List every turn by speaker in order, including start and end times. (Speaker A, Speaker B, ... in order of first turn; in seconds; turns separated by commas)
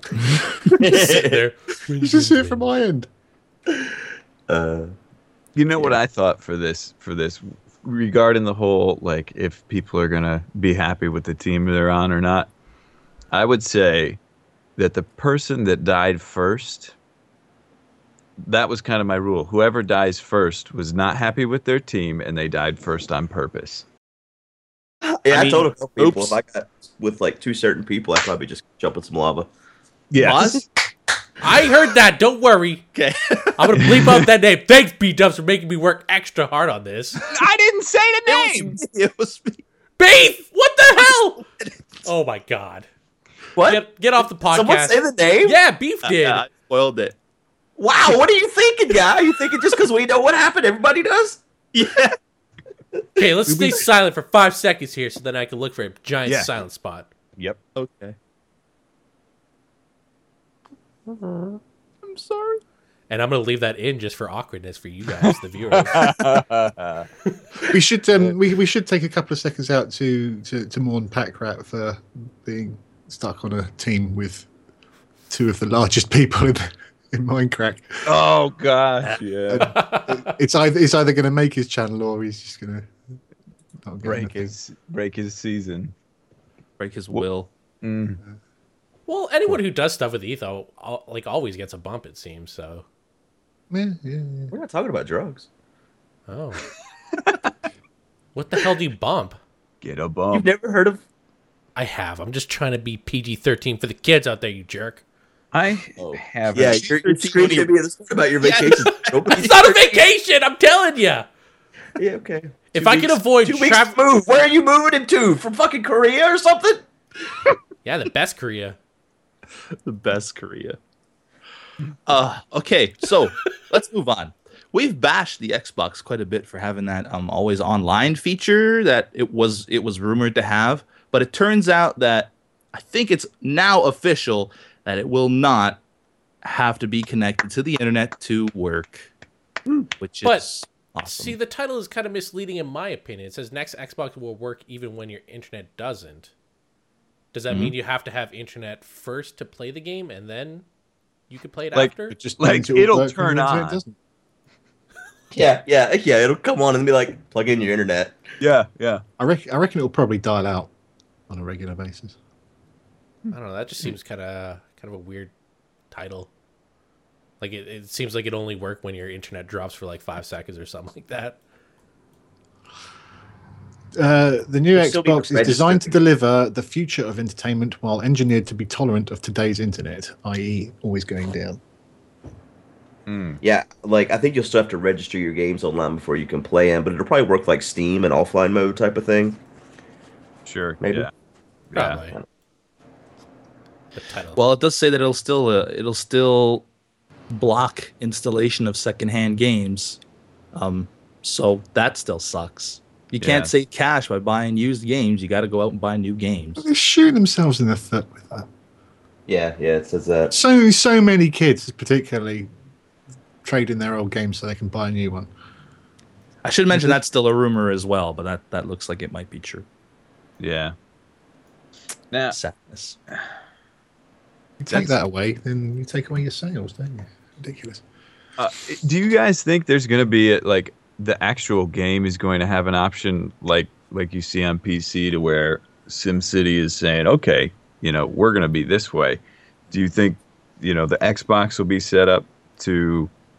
Speaker A: 0.7-1.4, Speaker B: 0.7-2.7, Speaker C: 2.0-3.1, Speaker A: 4.5-4.9, Speaker D: 5.5-12.5, Speaker D: 13.3-14.2, Speaker D: 14.8-16.9, Speaker D: 18.4-23.8, Speaker A: 25.0-29.5, Speaker E: 25.3-26.4, Speaker D: 30.1-30.6, Speaker E: 30.2-30.7, Speaker B: 31.4-32.9, Speaker E: 32.9-33.8, Speaker B: 33.6-37.2, Speaker D: 33.8-34.2, Speaker D: 37.2-38.8, Speaker E: 38.3-39.6, Speaker B: 40.0-41.4, Speaker B: 42.0-42.9, Speaker A: 43.6-45.6, Speaker B: 43.6-46.5, Speaker E: 46.0-47.1, Speaker A: 47.8-51.4, Speaker E: 51.7-52.2, Speaker B: 53.2-57.1, Speaker D: 56.3-56.5, Speaker E: 57.8-58.2, Speaker A: 61.2-61.5, Speaker E: 62.0-62.6, Speaker B: 63.1-66.2, Speaker D: 65.2-67.1, Speaker C: 67.7-74.5, Speaker C: 75.3-78.2, Speaker D: 78.0-79.8, Speaker C: 79.5-82.9, Speaker B: 79.6-80.3, Speaker C: 83.9-84.5, Speaker D: 84.0-85.9, Speaker E: 86.8-87.5, Speaker D: 87.8-88.2, Speaker B: 89.1-92.8, Speaker C: 93.7-94.5, Speaker A: 94.5-95.5, Speaker B: 96.3-96.7, Speaker B: 98.3-99.4, Speaker D: 99.8-100.5, Speaker A: 100.3-101.0, Speaker B: 101.8-105.0, Speaker D: 105.5-107.7, Speaker A: 106.0-110.0, Speaker B: 108.4-111.3, Speaker A: 112.0-116.8, Speaker B: 112.7-114.0, Speaker B: 117.8-118.8, Speaker E: 119.8-120.8, Speaker E: 122.1-135.8, Speaker E: 136.4-139.1, Speaker E: 140.0-141.3, Speaker B: 141.1-146.3, Speaker B: 147.3-150.7, Speaker D: 147.5-147.8, Speaker B: 151.3-152.2, Speaker D: 151.7-153.8, Speaker C: 152.1-153.9, Speaker A: 155.3-158.2, Speaker D: 158.4-159.0, Speaker C: 159.2-160.7, Speaker C: 161.3-162.2, Speaker B: 163.3-165.3, Speaker B: 165.9-166.3, Speaker B: 167.4-171.4, Speaker C: 174.0-181.6, Speaker A: 174.8-176.0, Speaker D: 183.1-183.4, Speaker A: 183.4-189.4, Speaker D: 190.5-191.1, Speaker A: 190.8-191.1, Speaker D: 191.7-192.0, Speaker B: 191.8-192.2, Speaker B: 193.9-194.4, Speaker E: 194.4-196.6, Speaker E: 197.3-200.0, Speaker E: 200.6-206.7, Speaker D: 203.2-203.5, Speaker C: 206.6-208.5, Speaker A: 209.3-210.3, Speaker C: 210.3-212.5, Speaker C: 213.4-215.3, Speaker E: 216.4-219.7, Speaker D: 220.4-220.8, Speaker D: 222.1-222.4, Speaker E: 222.3-223.0, Speaker C: 224.6-227.8, Speaker D: 228.4-239.2, Speaker D: 239.7-243.1